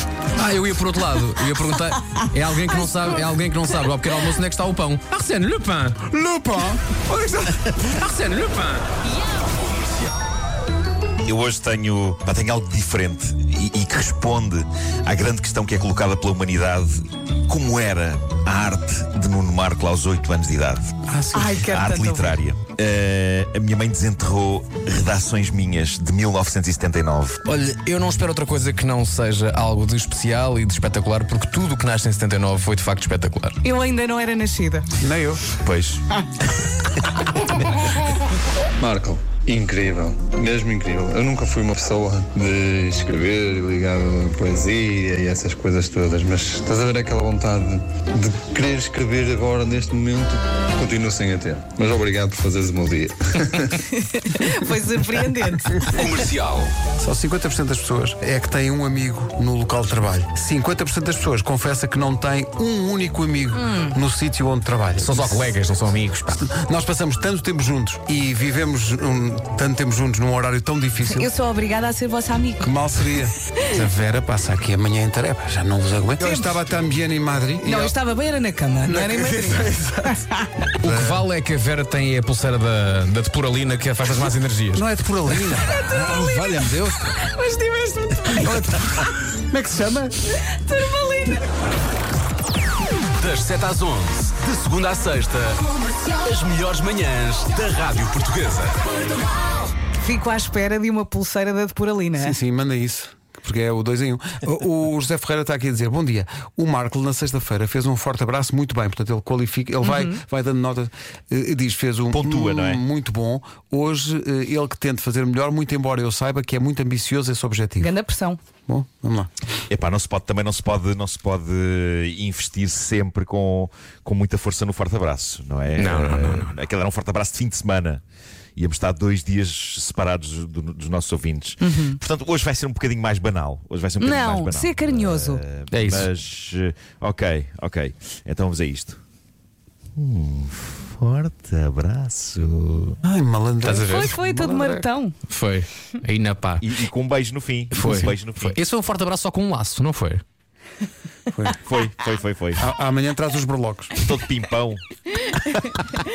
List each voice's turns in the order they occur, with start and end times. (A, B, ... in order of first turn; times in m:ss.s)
0:00.4-0:06.0 A
0:06.1-0:06.8 B
0:07.0-0:08.8 A
0:11.2-0:21.0 C
0:21.3-0:22.4 D
0:21.5-0:27.4 C
0:27.4-0:33.6 A
0:33.6-0:34.8 D
0:35.0-0:35.5 B
0:35.6-0:36.0 C
0:38.8-0:53.8 E
0:53.9-0:56.1 D
0:55.9-0:56.7 F
0:57.0-1:05.3 B
1:03.5-1:04.0 D
1:05.0-1:06.5 A
1:06.5-1:11.2 B
1:11.0-1:13.8 D
1:12.6-1:17.9 B
1:16.2-1:16.6 D
1:17.6-1:20.4 D
1:18.9-1:20.1 B
1:20.8-1:24.8 A
1:24.8-1:27.1 B
1:25.3-1:29.1 D
1:29.5-1:30.1 B
1:30.3-1:31.5 D
1:33.2-1:38.9 F
1:40.0-1:42.4 D
1:42.2-1:57.9 B
1:49.8-1:50.2 D
1:52.1-1:52.8 C
1:57.8-1:58.4 D
1:58.7-1:59.3 B
1:59.7-2:08.0 C
2:05.7-2:06.5 A
2:08.6-2:19.0 C
2:11.6-2:12.0 D
2:14.0-2:15.4 D
2:15.7-2:16.1 A
2:20.0-2:23.0 C
2:23.1-2:24.8 B
2:23.6-2:24.2 A
2:23.8-2:25.1 D
2:25.3-2:26.6 A
2:26.6-2:28.6 C
2:27.7-2:30.2 A
2:31.6-2:32.6 C
2:32.6-2:33.9 B
2:34.0-2:34.8 C
2:35.4-2:35.7 C